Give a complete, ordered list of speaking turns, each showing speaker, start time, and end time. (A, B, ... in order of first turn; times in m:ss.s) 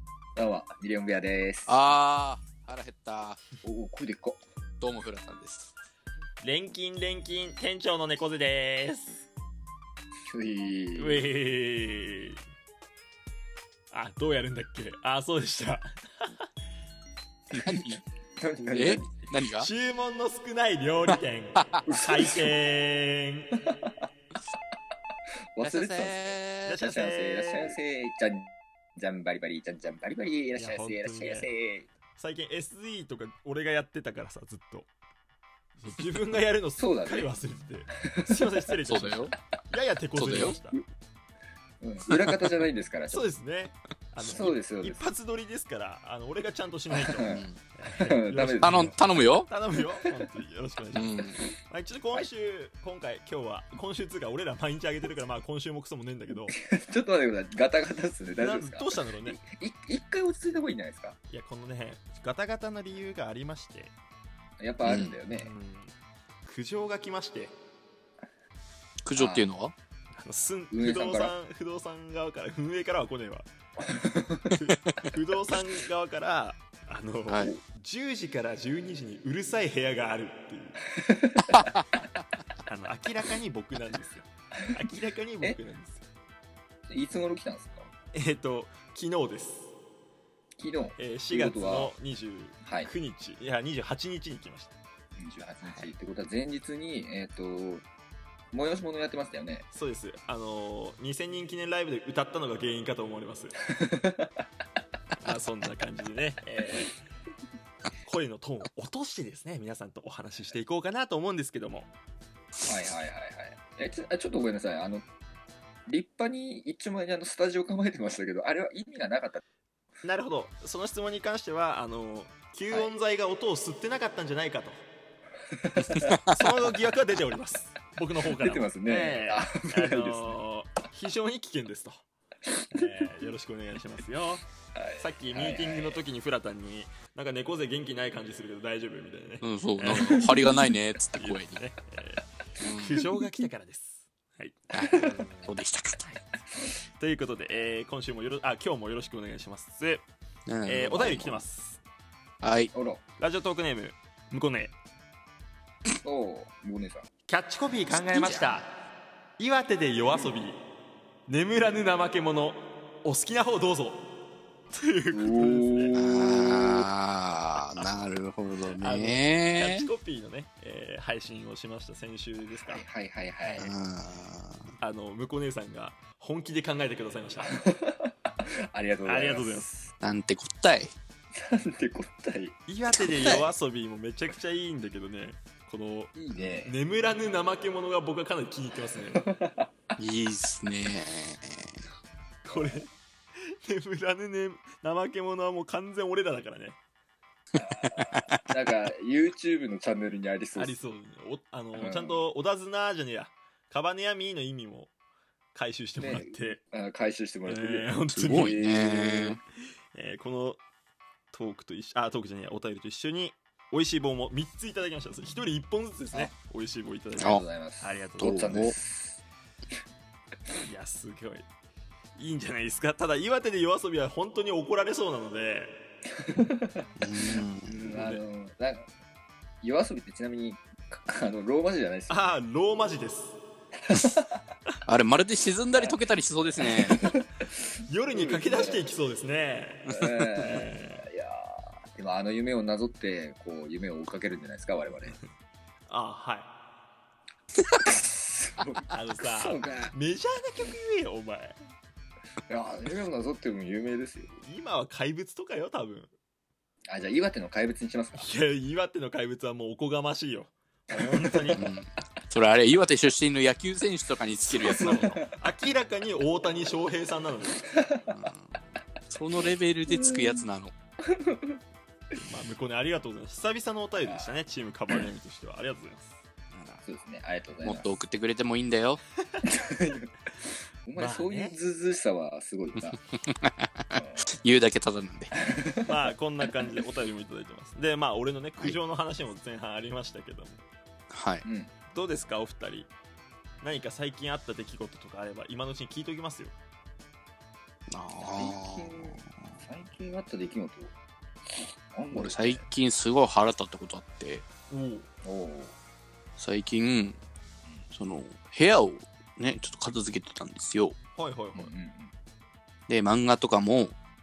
0:00.4-0:01.7 A
0:01.7-0:03.4 B
0:03.6-0:04.4 A
0:04.8-0:05.7 B
0:06.4-0:09.2 C
0:10.3-0:11.3 A
0:11.0-0:12.4 C
0:13.9-0:16.3 C
0:17.5-0:18.0 B
0:17.5-0:19.1 A
0:18.7-0:19.7 B
0:19.6-0:23.5 C
0:21.8-0:22.5 A
0:25.5-0:31.9 A
0:25.6-0:26.8 B
0:26.6-0:27.8 C
0:30.6-0:31.5 C
0:32.2-0:34.9 C
0:35.8-0:40.8 C
0:36.8-0:37.3 A
0:38.0-0:38.6 A
0:38.8-0:39.3 B
0:40.2-0:40.6 B
0:40.4-0:40.8 A
0:41.8-0:43.3 A
0:43.1-0:56.5 C
0:44.2-0:45.1 A
0:46.9-0:47.4 A
0:47.3-0:47.6 B
0:48.0-0:48.9 A
0:48.6-0:49.5 B
0:50.9-0:51.4 B
0:56.6-1:01.2 A
0:58.4-0:59.4 C
1:01.3-1:03.9 C
1:04.6-1:05.5 A
1:04.8-1:05.2 B
1:05.3-1:05.9 C
1:06.4-1:07.5 C
1:09.0-1:09.7 B
1:09.2-1:09.5 A
1:10.2-1:13.5 C
1:10.7-1:11.3 A
1:13.9-1:14.5 A
1:14.5-1:20.8 C
1:17.3-1:17.5 B
1:21.0-1:21.9 A
1:21.5-1:21.8 B
1:22.7-1:26.0 C
1:26.9-1:27.9 A
1:28.1-1:29.7 C
1:30.6-1:31.9 A
1:31.0-1:34.8 C
1:32.6-1:32.9 A
1:35.2-1:37.8 A
1:38.5-1:39.6 A
1:39.7-1:43.6 C
1:43.7-1:44.4 A
1:45.2-1:47.0 C
1:48.0-1:51.9 C
1:52.6-1:55.1 A
1:55.9-1:59.4 A
2:00.0-2:04.8 C
2:02.7-2:02.9 A
2:05.5-2:06.2 A
2:05.8-2:12.0 C
2:08.2-2:10.4 A
2:12.5-2:12.9 A
2:12.7-2:14.4 C
2:14.7-2:16.0 A
2:15.0-2:20.6 C
2:19.4-2:21.6 B
2:21.1-2:25.5 C
2:22.6-2:23.0 B
2:24.7-2:26.1 B
2:24.9-2:25.2 A
2:27.0-2:30.1 C
2:30.4-2:31.4 B
2:30.6-2:31.8 C
2:32.4-2:32.7 B
2:32.7-2:33.0 A
2:33.2-2:34.7 C
2:36.0-2:37.1 A
2:37.3-2:38.7 C
2:37.9-2:38.6 B
2:39.4-2:40.6 C
2:41.3-2:44.1 C
2:44.7-2:46.0 C
2:45.1-2:46.1 A
2:45.9-2:49.9 B
2:48.6-2:52.8 C
2:52.5-2:53.7 A
2:53.4-2:54.7 B
2:54.8-2:57.5 C
2:57.4-2:58.1 A
2:58.7-2:59.9 A
2:59.0-2:59.7 C
3:00.0-3:00.9 B
3:01.3-3:02.5 A
3:02.7-3:09.3 C
3:06.2-3:06.7 A
3:09.2-3:09.7 A
3:10.0-3:11.8 B
3:12.4-3:12.9 C
3:12.5-3:12.9 A
3:13.6-3:16.8 C
3:17.6-3:20.8 A
3:17.8-3:18.4 B
3:20.5-3:24.9 C
3:21.8-3:22.3 A
3:25.5-3:26.6 C
3:26.0-3:29.4 A
3:27.4-3:28.6 C
3:28.1-3:29.4 B
3:29.9-3:30.6 C
3:31.3-3:38.6 C
3:37.2-3:37.4 B
3:37.2-3:39.2 A
3:38.2-3:38.7 B
3:40.6-3:41.5 C
3:42.2-3:45.8 C
3:46.2-3:46.8 A
3:47.0-3:48.1 B
3:47.6-3:48.9 A
3:47.9-3:48.2 C
3:49.6-3:52.3 A
3:52.1-3:53.4 C
3:53.9-3:54.4 A
3:54.9-3:57.0 B
3:55.7-3:56.0 A
3:56.6-3:57.3 A
3:57.8-4:01.0 C
3:58.1-3:58.9 A
3:59.9-4:05.2 A
4:05.9-4:06.5 C
4:07.8-4:09.9 A
4:08.9-4:11.6 C
4:12.5-4:14.4 A
4:14.4-4:16.1 C
4:16.9-4:18.3 A
4:18.1-4:21.6 C
4:20.9-4:21.7 A
4:21.5-4:25.2 B
4:24.6-4:25.4 A
4:24.6-4:27.7 C
4:27.8-4:28.1 A
4:28.1-4:28.6 B
4:29.1-4:30.7 B
4:29.9-4:30.4 A
4:31.1-4:31.6 A
4:32.2-4:36.2 C
4:34.0-4:34.4 A
4:36.5-4:36.8 B
4:36.8-4:38.0 A
4:37.6-4:39.0 B
4:39.4-4:40.1 A
4:40.8-4:43.0 A
4:40.9-4:41.6 C
4:42.9-4:45.3 B
4:44.0-4:44.3 A
4:45.4-4:45.8 A
4:45.8-4:50.6 C
4:51.1-4:51.4 B
4:51.4-4:51.7 A
4:51.9-4:52.9 C
4:53.6-4:56.5 C
4:57.9-4:59.6 B
4:58.2-5:00.9 A
5:01.5-5:02.6 A
5:02.1-5:04.4 B
5:04.7-5:05.1 C
5:05.2-5:05.7 A
5:06.4-5:07.2 B
5:07.9-5:11.0 B
5:11.2-5:11.7 C
5:11.5-5:12.1 A
5:12.9-5:14.0 B